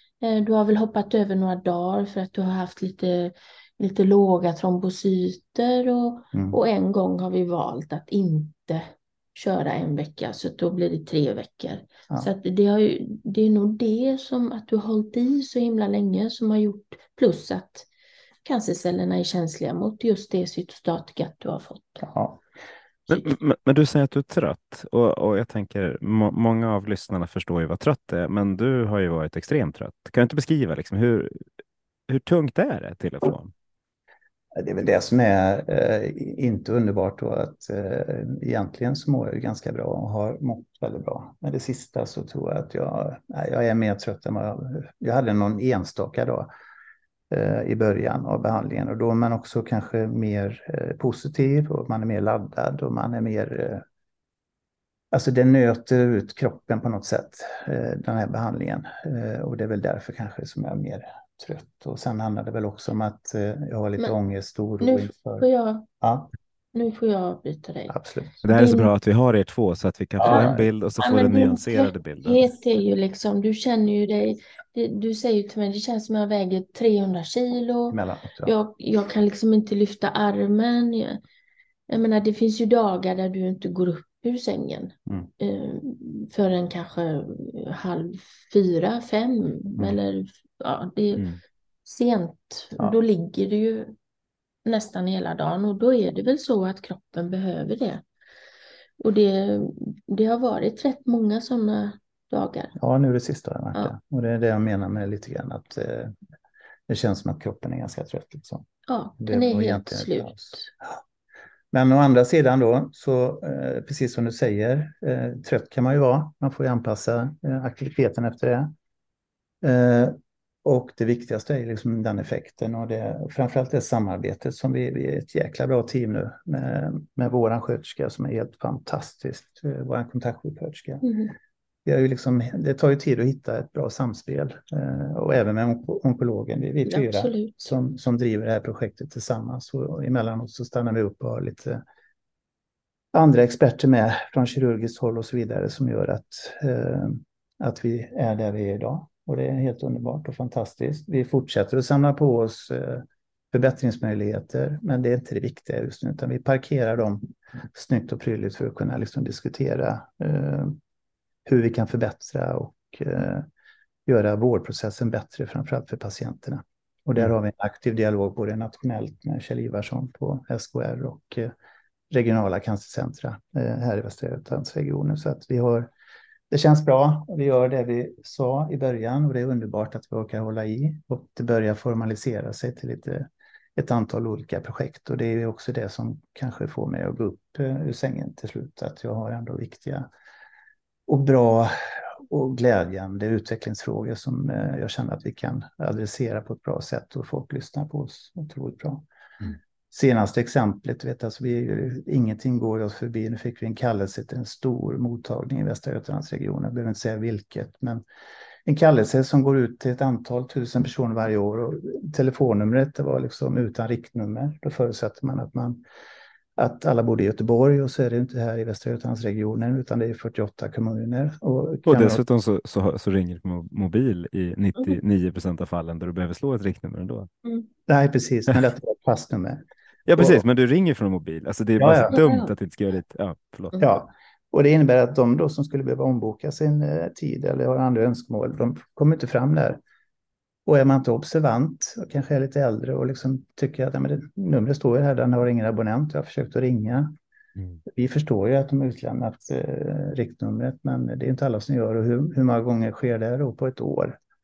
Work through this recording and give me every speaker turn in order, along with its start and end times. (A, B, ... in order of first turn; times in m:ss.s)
0:00.2-0:17.9 A
0:18.4-0:22.1 A
0:22.0-0:22.4 B
0:23.1-0:31.4 C
0:32.1-0:33.5 C
0:34.6-0:46.5 B
0:47.3-0:53.8 B
0:55.1-1:05.5 B
1:04.8-1:05.9 A
1:06.0-1:06.3 B
1:06.7-1:08.9 A
1:07.9-1:08.4 B
1:08.4-1:12.4 C
1:10.2-1:10.7 B
1:10.2-1:21.2 A
1:17.9-1:18.5 B
1:21.9-1:31.2 A
1:31.9-1:34.0 A
1:34.6-1:38.0 A
1:39.0-1:42.8 A
1:42.8-1:46.2 B
1:46.9-1:48.7 B
1:48.9-1:50.7 A
1:49.2-1:50.9 B
1:51.7-1:58.7 B
1:59.6-2:11.0 B
2:11.0-2:11.3 A
2:11.8-2:21.8 B
2:16.9-2:17.7 A
2:23.1-2:40.8 B
2:41.5-2:43.5 B
2:44.1-2:51.5 B
2:52.1-2:55.9 B
2:56.5-3:10.1 B
3:11.1-3:19.1 B
3:19.9-3:28.0 B
3:28.7-3:35.8 B
3:36.6-3:42.2 B
3:41.9-3:47.3 C
3:47.9-3:49.6 B
3:50.1-3:53.9 C
3:50.2-3:50.4 B
3:51.8-3:52.2 B
3:52.1-3:52.5 A
3:53.8-3:59.8 B
4:00.7-4:07.1 B
4:07.9-4:14.2 B